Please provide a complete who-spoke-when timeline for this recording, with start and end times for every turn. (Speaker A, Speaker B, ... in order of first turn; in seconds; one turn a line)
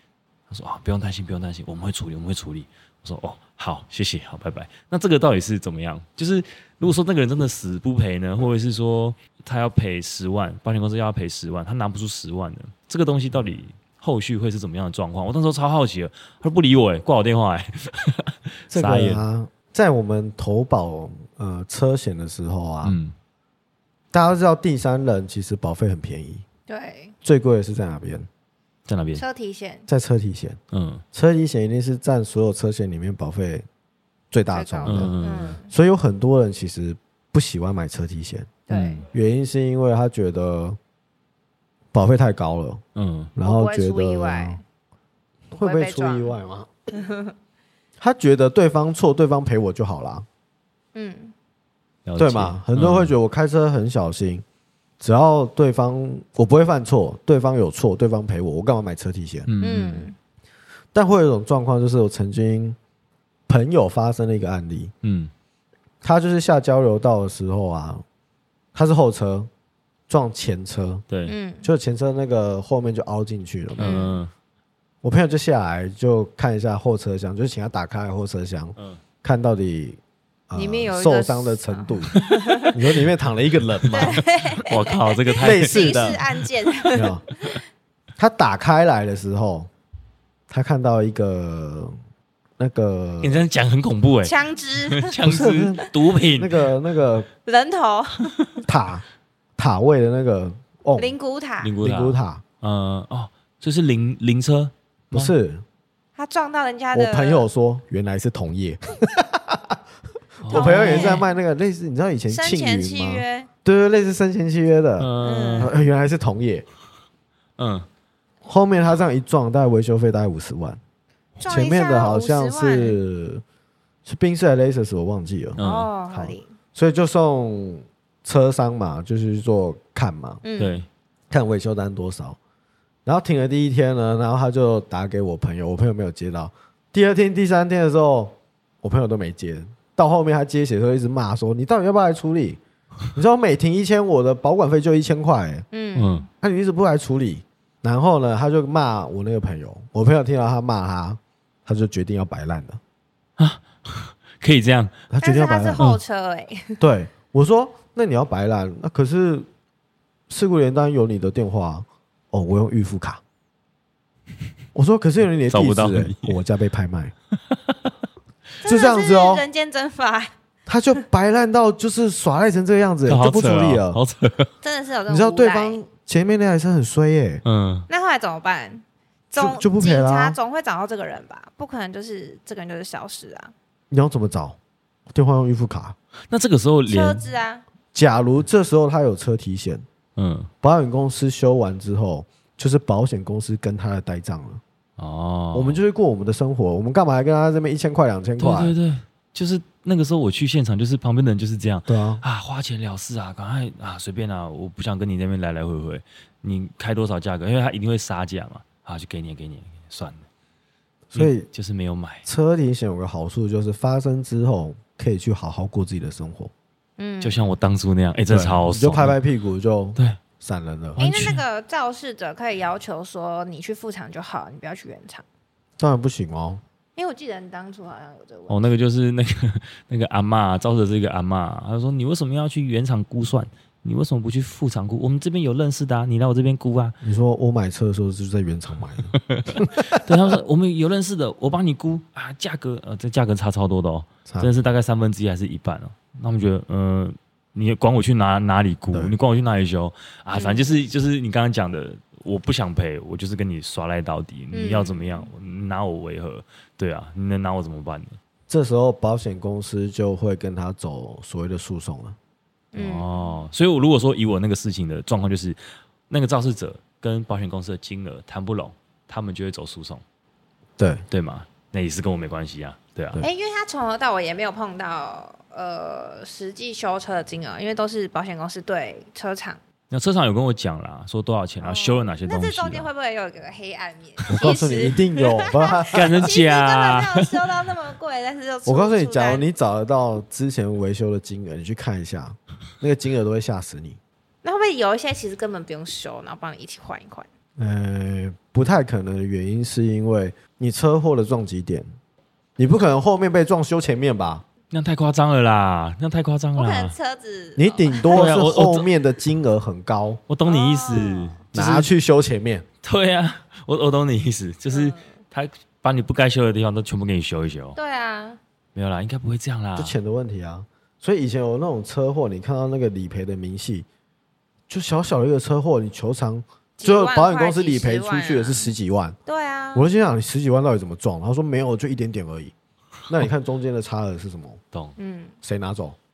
Speaker A: 0.5-19.2
Speaker B: 18.7-23.0
Speaker A: 22.8-23.1
Speaker B: 24.1-26.4
Speaker C: 26.7-27.1
Speaker B: 27.2-28.3
Speaker A: 28.9-29.2
Speaker C: 29.2-29.9
Speaker B: 29.9-30.6
Speaker A: 30.7-31.0
Speaker B: 31.1-33.7
Speaker B: 34.3-35.1
Speaker C: 34.5-35.7
Speaker A: 34.8-35.6
Speaker B: 35.7-38.6
Speaker C: 38.7-39.0
Speaker A: 38.7-39.1
Speaker B: 39.1-40.8
Speaker B: 41.9-42.8
Speaker A: 43.0-43.3
Speaker B: 43.4-44.6
Speaker C: 43.4-44.6
Speaker B: 45.5-46.7
Speaker C: 45.6-46.4
Speaker C: 46.9-47.4
Speaker B: 48.0-50.3
Speaker C: 50.9-51.3
Speaker A: 52.0-53.1
Speaker B: 52.2-54.5
Speaker B: 55.0-59.5
Speaker A: 59.5-60.1
Speaker C: 59.6-60.2
Speaker B: 60.9-62.8
Speaker B: 63.5-64.9
Speaker A: 65.0-65.3
Speaker B: 66.0-68.0
Speaker B: 68.7-69.5
Speaker B: 70.1-71.1
Speaker A: 71.1-71.4
Speaker C: 71.3-71.7
Speaker B: 71.6-74.0
Speaker A: 73.8-74.3
Speaker C: 73.8-74.2
Speaker B: 75.0-84.2
Speaker A: 78.8-79.0
Speaker C: 80.5-82.8
Speaker A: 82.1-82.7
Speaker A: 83.8-86.3
Speaker C: 83.9-87.6
Speaker B: 85.4-86.3
Speaker B: 86.9-87.2
Speaker B: 88.2-89.7
Speaker B: 90.5-92.0
Speaker B: 92.6-93.4
Speaker A: 93.2-96.7
Speaker C: 94.2-95.2
Speaker B: 95.2-97.3
Speaker C: 97.5-98.4
Speaker B: 98.7-99.0
Speaker B: 99.6-101.1
Speaker C: 101.0-101.8
Speaker A: 101.6-105.3
Speaker B: 101.8-102.4
Speaker B: 105.1-105.6
Speaker C: 106.2-107.5
Speaker B: 106.9-109.8
Speaker A: 110.4-111.3
Speaker B: 110.5-116.7
Speaker C: 110.5-111.3
Speaker C: 112.3-113.5
Speaker A: 115.0-115.8
Speaker C: 115.2-115.8
Speaker A: 117.6-117.9
Speaker B: 118.5-120.8
Speaker C: 121.4-123.0
Speaker B: 121.4-123.4
Speaker B: 124.0-125.6
Speaker A: 125.6-125.9
Speaker C: 125.6-126.5
Speaker B: 126.1-130.4
Speaker C: 130.4-130.8
Speaker A: 130.6-130.9
Speaker B: 131.3-132.4
Speaker B: 133.1-142.6
Speaker B: 143.1-145.7
Speaker C: 145.7-146.3
Speaker A: 145.9-146.3
Speaker B: 146.4-152.8
Speaker A: 153.4-155.0
Speaker B: 155.1-155.9
Speaker C: 155.2-156.8
Speaker B: 156.8-159.5
Speaker B: 160.3-163.2
Speaker B: 164.8-167.1
Speaker A: 165.5-166.4
Speaker A: 167.5-167.9
Speaker C: 168.6-170.3
Speaker B: 168.6-169.4
Speaker B: 170.7-174.0
Speaker A: 173.1-174.5
Speaker C: 174.6-175.8
Speaker B: 175.1-177.4
Speaker A: 177.4-177.9
Speaker C: 177.9-183.5
Speaker B: 179.4-180.4
Speaker B: 183.9-184.6
Speaker B: 185.1-186.0
Speaker A: 186.3-187.3
Speaker C: 186.9-187.6
Speaker B: 187.9-189.8
Speaker A: 190.2-190.5
Speaker B: 190.6-194.6
Speaker A: 195.0-195.8
Speaker B: 195.5-198.7
Speaker A: 198.4-210.3
Speaker B: 201.9-202.2
Speaker B: 211.1-211.5
Speaker A: 211.2-212.3
Speaker B: 212.2-216.5
Speaker C: 217.0-217.4
Speaker A: 217.2-219.2
Speaker B: 218.3-221.0
Speaker A: 221.0-221.4
Speaker C: 221.0-225.2
Speaker B: 225.8-226.6
Speaker C: 227.0-228.7
Speaker A: 228.5-237.0
Speaker B: 237.0-240.0
Speaker A: 239.1-258.2
Speaker B: 244.3-244.5
Speaker C: 250.3-250.7
Speaker C: 254.5-255.3
Speaker B: 258.5-262.2
Speaker C: 262.7-263.4
Speaker A: 262.8-270.0
Speaker B: 270.8-271.1
Speaker A: 271.1-273.2
Speaker C: 273.2-279.6
Speaker A: 279.9-282.9
Speaker C: 281.6-289.5
Speaker B: 284.3-286.3
Speaker A: 285.9-287.4
Speaker B: 288.7-294.0
Speaker C: 294.4-297.3
Speaker B: 297.6-301.9
Speaker B: 302.6-304.4
Speaker A: 304.7-307.0
Speaker C: 306.6-308.2
Speaker B: 307.6-310.2
Speaker A: 308.1-308.9
Speaker A: 310.3-311.9
Speaker C: 310.5-311.4
Speaker B: 311.5-312.7
Speaker A: 312.8-317.8
Speaker C: 314.7-315.0
Speaker C: 317.8-318.4
Speaker A: 318.8-320.0
Speaker B: 319.8-323.9
Speaker B: 324.7-329.2
Speaker C: 326.8-328.7
Speaker C: 329.3-329.9
Speaker B: 329.7-332.5
Speaker B: 333.1-334.6
Speaker C: 335.0-335.4
Speaker B: 335.4-336.0